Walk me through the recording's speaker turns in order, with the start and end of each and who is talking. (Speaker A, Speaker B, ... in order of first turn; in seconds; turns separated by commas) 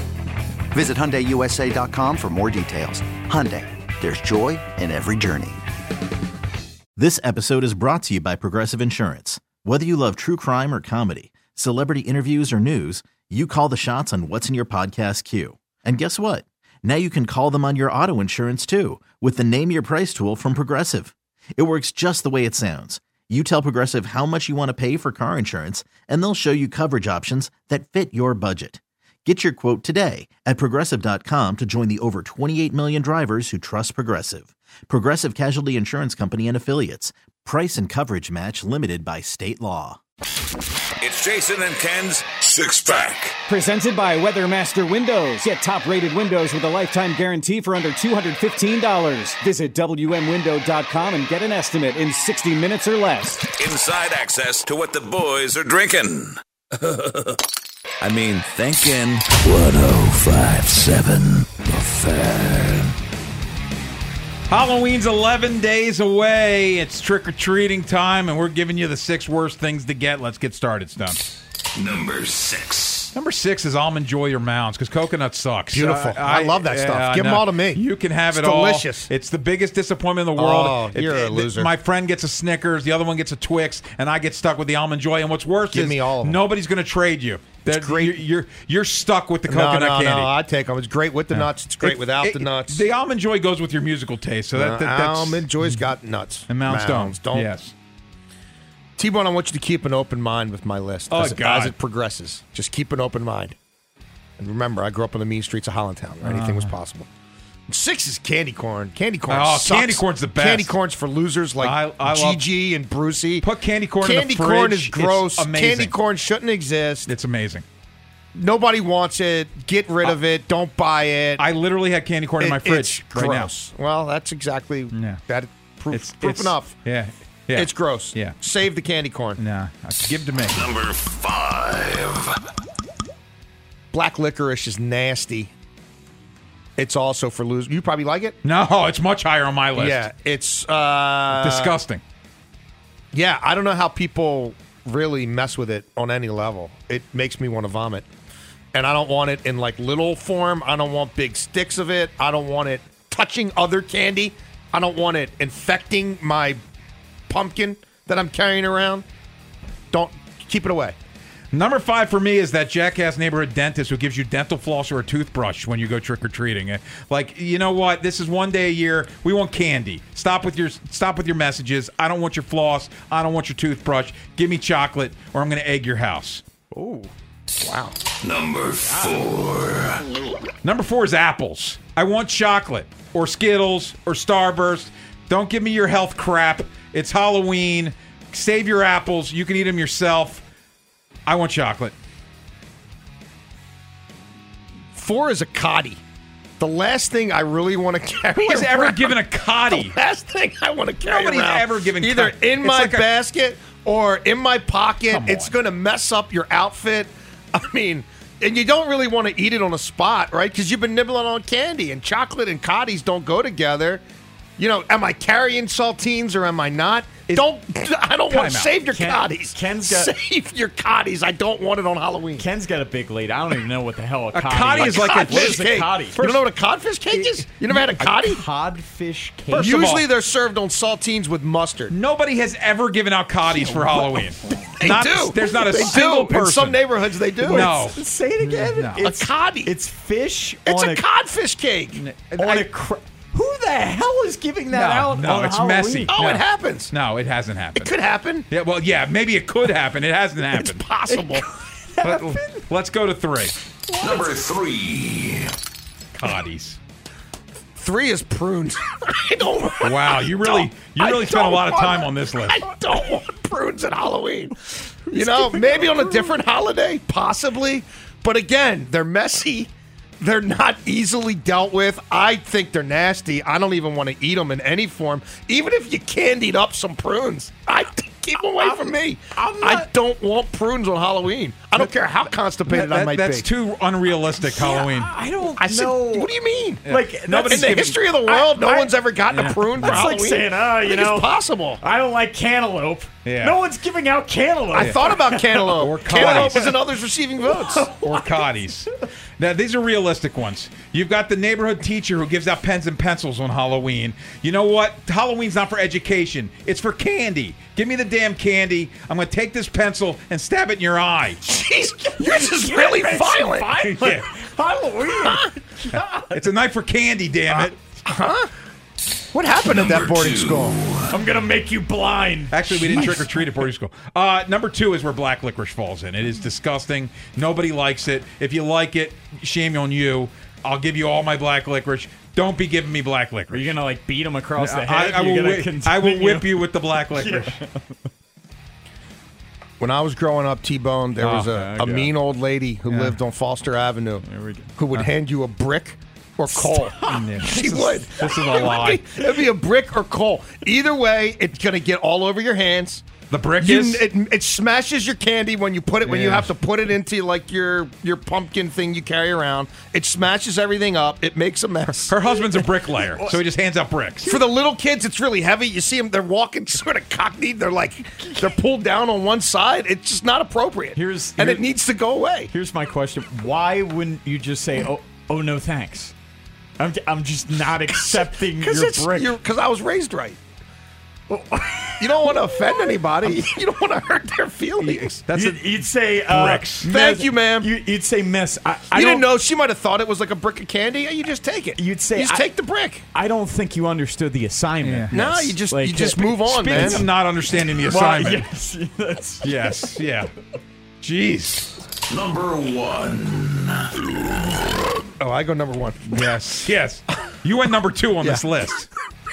Speaker A: 0.7-5.6, Speaker B: 7.0-40.0, Speaker C: 41.0-43.4, Speaker D: 43.5-53.5, Speaker C: 53.6-56.4, Speaker C: 56.9-57.2, Speaker C: 58.0-62.9, Speaker E: 64.5-71.2, Speaker C: 71.8-73.1, Speaker E: 73.1-90.3, Speaker F: 75.7-79.1, Speaker F: 80.3-81.7, Speaker F: 85.7-86.4, Speaker F: 87.6-88.2, Speaker F: 89.5-92.8, Speaker E: 91.3-95.8, Speaker F: 94.5-97.5, Speaker E: 96.5-97.7, Speaker F: 99.0-103.6, Speaker E: 101.1-101.8, Speaker F: 104.4-107.1, Speaker E: 106.2-106.8, Speaker F: 107.7-117.1, Speaker E: 109.3-110.8, Speaker E: 111.6-112.5, Speaker E: 113.4-116.0, Speaker E: 117.1-117.7, Speaker F: 118.3-121.4, Speaker E: 121.4-123.5, Speaker F: 122.4-126.8, Speaker E: 124.9-125.2, Speaker E: 125.9-128.4, Speaker F: 127.5-129.4, Speaker E: 129.4-130.8, Speaker C: 130.5-132.2, Speaker F: 133.9-135.5, Speaker F: 136.8-138.4, Speaker E: 138.4-140.1, Speaker F: 139.8-141.7, Speaker E: 141.3-142.0, Speaker F: 143.1-148.1, Speaker F: 148.7-156.6, Speaker F: 157.3-159.1, Speaker F: 159.9-160.9, Speaker E: 161.5-176.4, Speaker G: 176.7-177.1, Speaker F: 177.6-177.9, Speaker C: 178.2-180.0, Speaker G: 178.8-179.2, Speaker E: 180.6-190.4, Speaker E: 191.3-191.9, Speaker F: 194.9-196.0, Speaker F: 196.6-199.2, Speaker E: 198.4-200.0, Speaker F: 199.7-214.0, Speaker E: 201.1-203.1, Speaker E: 205.1-205.6, Speaker F: 214.6-222.4, Speaker E: 218.3-218.8, Speaker G: 218.9-220.1, Speaker G: 222.4-226.2, Speaker E: 224.3-226.5, Speaker F: 224.8-228.4, Speaker G: 227.8-229.9, Speaker E: 229.5-230.1, Speaker F: 229.5-231.9, Speaker E: 231.9-236.8, Speaker F: 234.6-237.7, Speaker G: 237.4-241.1, Speaker E: 237.4-239.1, Speaker F: 239.0-239.7, Speaker F: 240.7-242.0, Speaker E: 241.9-242.7, Speaker G: 242.4-246.2, Speaker E: 244.7-247.9, Speaker F: 246.1-246.9, Speaker F: 247.8-248.5, Speaker E: 248.5-250.8, Speaker F: 250.6-251.4, Speaker G: 251.1-252.6, Speaker E: 252.0-253.5, Speaker G: 253.9-254.4, Speaker C: 254.0-255.5, Speaker E: 256.1-256.8, Speaker F: 257.8-264.5, Speaker E: 259.8-262.6, Speaker F: 265.1-283.5, Speaker G: 265.1-266.3, Speaker G: 279.4-279.9, Speaker E: 282.7-285.1, Speaker G: 284.4-286.3, Speaker F: 285.6-286.8, Speaker G: 286.8-296.7, Speaker E: 286.9-288.0, Speaker F: 287.5-291.8, Speaker E: 289.3-290.1, Speaker E: 293.2-293.6, Speaker F: 294.7-297.9, Speaker E: 294.8-295.1, Speaker E: 295.8-296.8, Speaker G: 297.5-298.6, Speaker E: 298.0-298.9, Speaker E: 299.4-311.4, Speaker F: 311.4-313.7, Speaker G: 312.2-316.4, Speaker E: 313.8-314.2, Speaker E: 315.9-317.8, Speaker F: 317.5-318.5, Speaker F: 319.3-320.8, Speaker C: 319.6-321.0, Speaker G: 321.1-323.4, Speaker E: 322.5-333.7, Speaker G: 333.5-337.6, Speaker E: 334.6-337.6, Speaker F: 339.8-344.2, Speaker E: 341.2-341.5, Speaker G: 341.4-342.1, Speaker E: 342.9-343.2, Speaker G: 344.2-344.7, Speaker F: 344.8-362.2, Speaker G: 346.5-347.7, Speaker E: 347.1-349.1, Speaker E: 353.3-354.1, Speaker E: 356.1-356.5, Speaker E: 362.1-364.3, Speaker G: 362.6-363.4, Speaker F: 364.2-372.5, Speaker G: 370.9-371.7, Speaker G: 372.5-376.1, Speaker G: 376.8-379.4, Speaker F: 378.0-380.4, Speaker G: 381.3-382.7, Speaker F: 382.0-385.2, Speaker E: 384.8-386.9, Speaker G: 385.3-389.3, Speaker F: 386.9-387.7, Speaker F: 388.9-393.1, Speaker G: 391.8-392.5, Speaker G: 393.1-397.1, Speaker E: 394.8-395.1, Speaker F: 395.1-397.1, Speaker E: 396.4-398.5, Speaker G: 397.9-400.0, Speaker E: 399.4-400.3, Speaker E: 401.0-401.7, Speaker C: 402.1-404.5, Speaker F: 405.2-406.4, Speaker E: 406.1-408.9, Speaker F: 408.2-408.4